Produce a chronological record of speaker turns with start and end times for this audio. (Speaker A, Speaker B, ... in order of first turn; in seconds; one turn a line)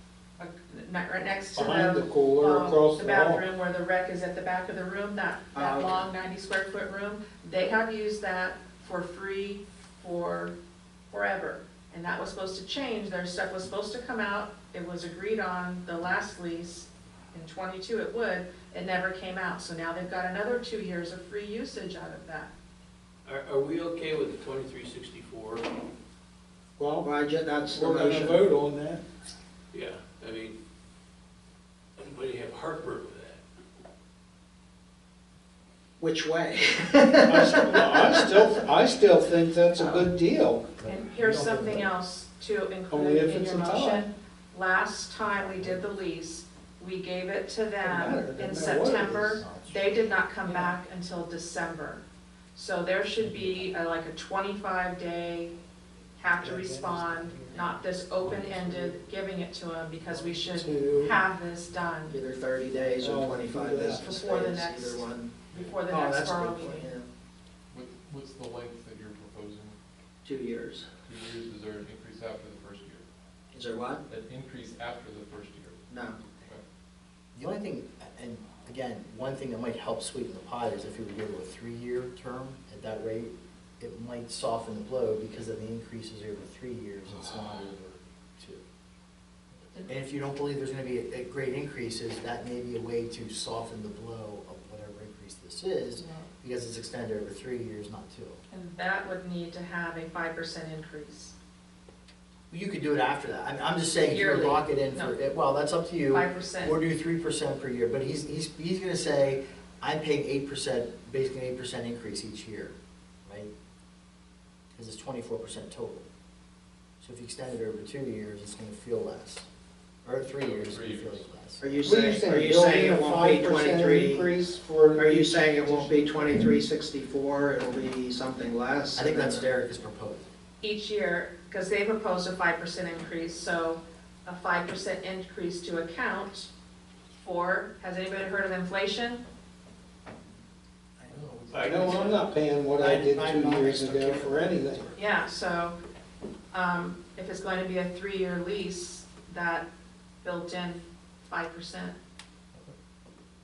Speaker A: 0.4-10.6
Speaker B: 1.5-3.4
Speaker C: 5.5-6.0
Speaker A: 11.1-22.5
Speaker D: 23.2-25.7
Speaker B: 26.8-27.1
Speaker C: 27.0-28.4
Speaker B: 27.7-29.0
Speaker D: 29.7-30.6
Speaker D: 32.0-33.4
Speaker C: 36.0-38.3
Speaker B: 37.2-40.8
Speaker E: 40.8-41.8
Speaker A: 40.8-52.0
Speaker B: 41.3-41.6
Speaker B: 42.9-44.1
Speaker B: 47.8-49.2
Speaker E: 49.1-49.9
Speaker B: 50.5-50.7
Speaker A: 52.5-55.5
Speaker A: 56.2-62.2
Speaker B: 56.2-57.7
Speaker B: 58.2-59.0
Speaker B: 60.1-61.1
Speaker C: 62.1-65.4
Speaker B: 63.0-64.1
Speaker A: 64.0-66.9
Speaker F: 65.5-65.8
Speaker C: 65.9-67.0
Speaker F: 67.7-69.8
Speaker C: 70.2-70.9
Speaker F: 71.0-73.0
Speaker C: 73.5-74.0
Speaker F: 74.1-76.6
Speaker C: 75.9-76.2
Speaker E: 77.3-88.6
Speaker E: 89.9-98.4
Speaker A: 96.0-96.3
Speaker A: 98.5-101.3
Speaker E: 102.5-112.7
Speaker A: 104.0-105.1
Speaker A: 106.1-106.8
Speaker E: 113.2-113.5
Speaker E: 114.7-116.0
Speaker E: 117.0-119.5
Speaker E: 120.0-121.7
Speaker F: 120.4-121.3
Speaker C: 121.6-124.3
Speaker B: 121.8-125.9
Speaker C: 124.9-129.4
Speaker E: 128.9-130.3
Speaker A: 130.6-136.5
Speaker A: 137.1-139.2
Speaker F: 141.1-142.3
Speaker D: 141.5-142.2
Speaker B: 141.7-144.9
Speaker C: 142.7-144.9
Speaker A: 144.9-145.8
Speaker A: 146.5-149.7
Speaker A: 150.2-151.9